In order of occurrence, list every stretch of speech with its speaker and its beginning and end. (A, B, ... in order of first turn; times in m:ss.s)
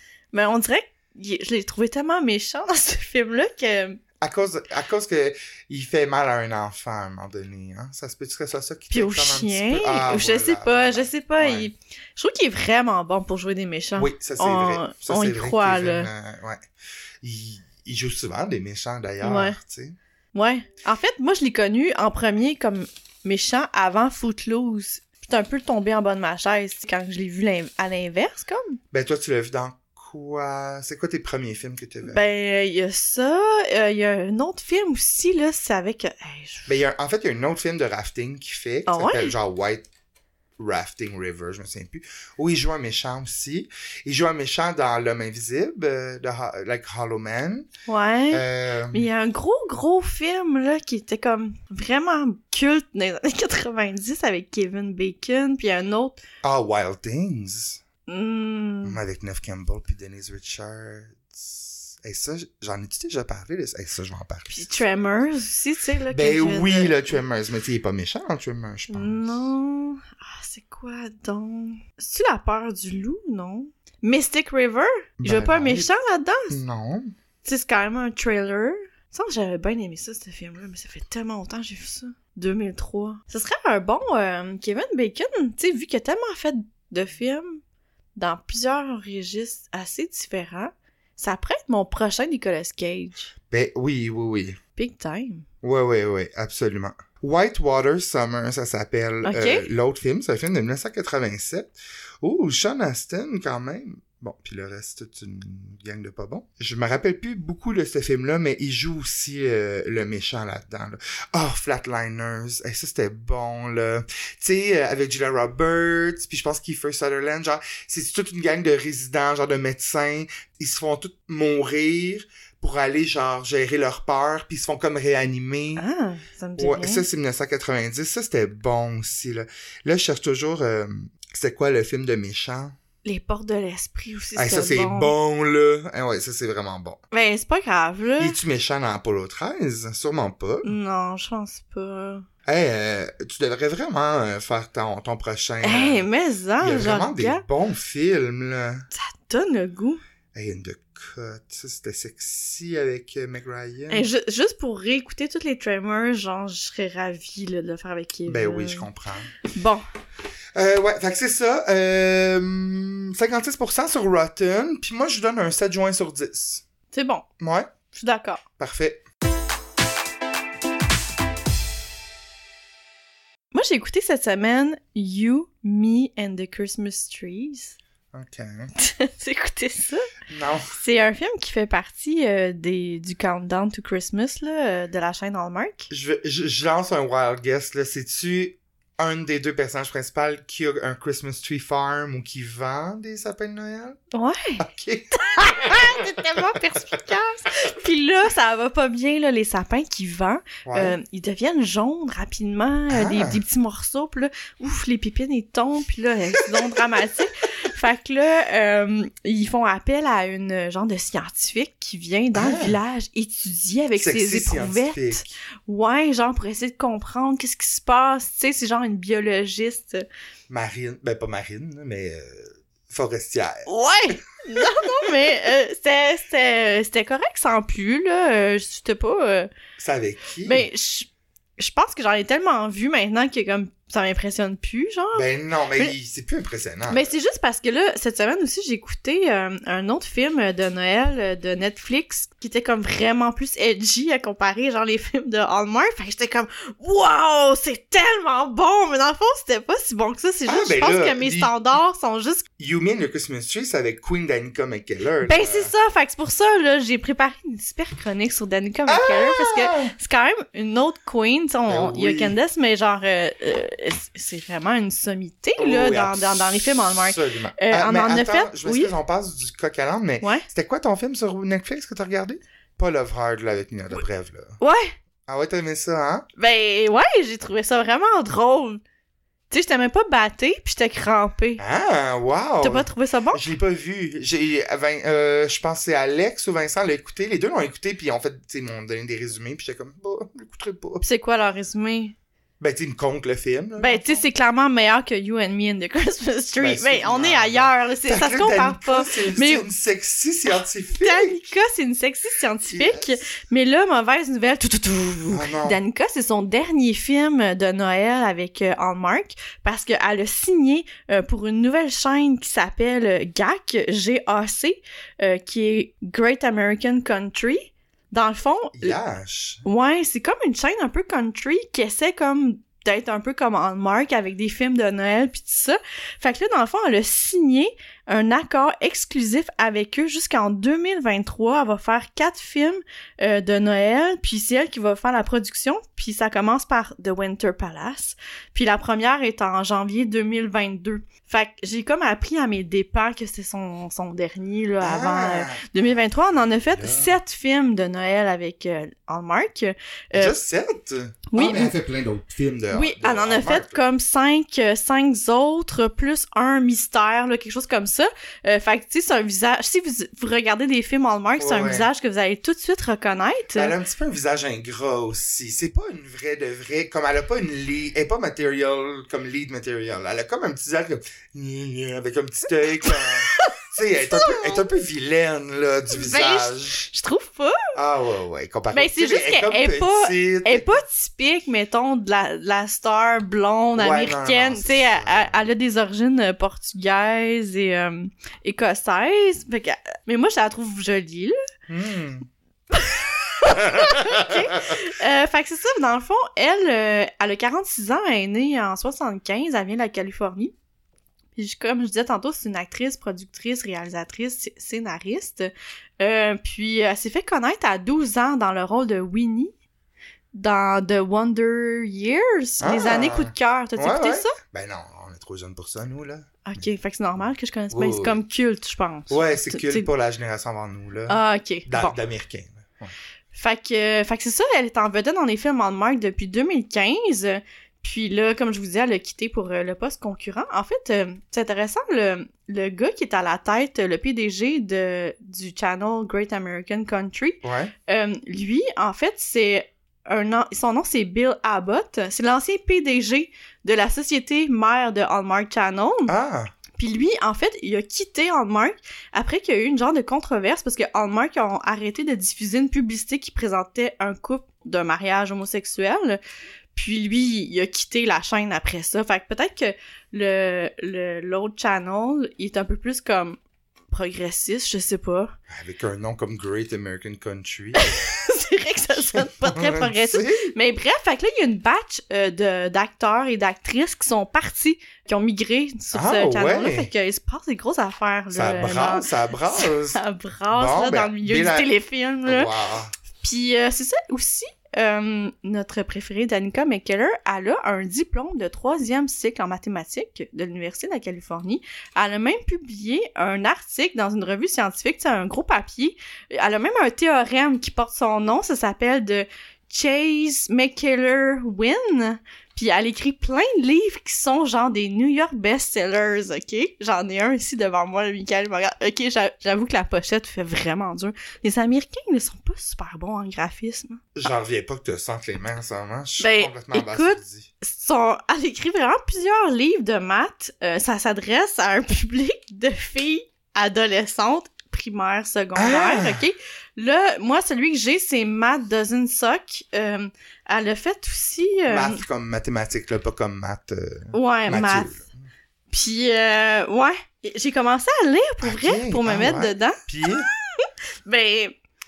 0:00.3-0:04.0 A
0:04.2-0:11.7 B
0:08.9-0:16.1 A
0:14.0-0:16.6 B
0:17.2-0:20.0 B
0:19.2-0:19.6 A
0:20.3-0:28.8 A
0:28.9-0:32.3 B
0:32.0-0:36.7 A
0:36.7-0:39.8 B
0:38.9-0:39.3 A
0:40.6-0:47.7 B
0:47.9-0:56.2 A
0:48.3-0:49.1 B
0:56.4-0:57.8 B
0:58.1-0:59.0 A
0:58.8-1:04.8 B
1:04.5-1:07.2 A
1:06.1-1:09.4 B
1:08.9-1:16.6 A
1:15.2-1:15.9 B
1:16.5-1:17.1 B
1:17.4-1:27.6 A
1:28.2-1:33.3 A
1:33.5-1:34.6 B
1:34.8-1:35.5 A
1:35.6-2:05.8 B
1:39.2-1:39.7 A
2:05.8-2:07.0 A
2:06.6-2:12.8 B
2:13.0-2:15.1 A
2:14.4-2:17.0 B
2:17.1-2:18.4 A
2:18.2-2:20.7 B
2:20.6-2:22.3 A
2:22.5-2:26.0 B
2:25.6-2:27.4 A
2:26.6-2:28.9 B
2:28.9-2:30.0 A
2:30.3-2:34.1 B
2:33.9-2:38.9 A
2:38.3-2:39.3 B
2:39.4-2:39.8 A
2:40.6-2:46.6 B
2:46.9-2:47.3 A
2:47.4-2:47.7 B
2:47.9-2:48.4 A
2:48.6-2:49.0 B
2:53.5-2:57.8 A
2:58.1-2:58.7 B
2:58.8-3:00.1 A
3:00.3-3:00.7 B
3:00.7-3:05.9 A
3:05.9-3:14.0 B
3:14.1-3:40.0 A
3:14.6-3:16.3 B
3:20.6-3:21.0 B
3:22.9-3:23.4 B
3:32.4-3:32.8 B
3:34.0-3:35.2 B
3:40.5-3:43.7 B
3:43.7-3:49.5 A
3:44.6-3:44.9 B
3:49.8-3:50.7 B
3:50.4-3:55.2 A
3:55.2-3:57.1 B
3:56.9-4:12.5 A
4:10.5-4:11.5 B
4:12.6-4:15.7 B
4:15.2-4:28.9 A
4:18.9-4:19.9 B
4:21.7-4:22.4 B
4:25.6-4:34.6 B
4:34.6-4:34.9 A
4:35.3-4:36.3 B
4:36.4-4:38.8 A
4:39.5-4:41.6 A
4:41.6-4:51.0 B
4:42.6-4:43.4 A
4:51.0-4:52.2 A
4:52.6-4:54.2 B
4:53.8-4:59.7 A
4:56.6-5:01.4 B
5:01.0-5:19.0 A
5:02.7-5:03.2 B
5:05.3-5:05.8 B
5:18.8-5:19.6 B
5:19.6-5:50.4 A
5:44.8-5:45.6 B
5:46.7-5:47.1 B
5:50.1-5:53.8 B
5:51.3-5:51.8 A
5:52.7-6:03.7 A
6:01.4-6:01.9 B
6:03.6-6:16.9 B
6:12.8-6:14.7 A
6:15.9-6:17.6 A
6:17.8-6:20.8 B
6:18.7-6:31.4 A
6:23.8-6:25.4 B
6:31.7-6:32.3 B
6:32.7-6:40.5 A
6:33.5-6:34.4 B
6:41.4-6:49.5 A
6:50.3-6:54.4 A
6:52.6-6:56.4 B
6:56.5-6:59.9 A
6:57.7-6:58.2 B
6:59.1-7:02.9 B
7:01.1-7:02.0 A
7:03.3-7:26.1 A
7:17.4-7:17.7 B
7:26.1-7:26.5 B
7:26.8-7:36.2 A
7:36.8-7:43.4 A
7:43.9-7:45.4 A
7:45.5-7:48.0 B
7:47.8-8:02.5 A
7:49.1-7:50.5 B
7:55.9-7:56.9 B
7:58.3-8:00.0 B
8:00.5-8:01.7 B
8:02.3-8:02.9 B
8:03.2-8:34.1 A
8:34.2-8:37.5 B
8:36.2-8:52.0 A
8:45.6-8:46.2 B
8:51.7-8:55.2 B
8:54.1-8:55.0 A
8:55.7-9:01.6 A
8:58.4-9:00.3 B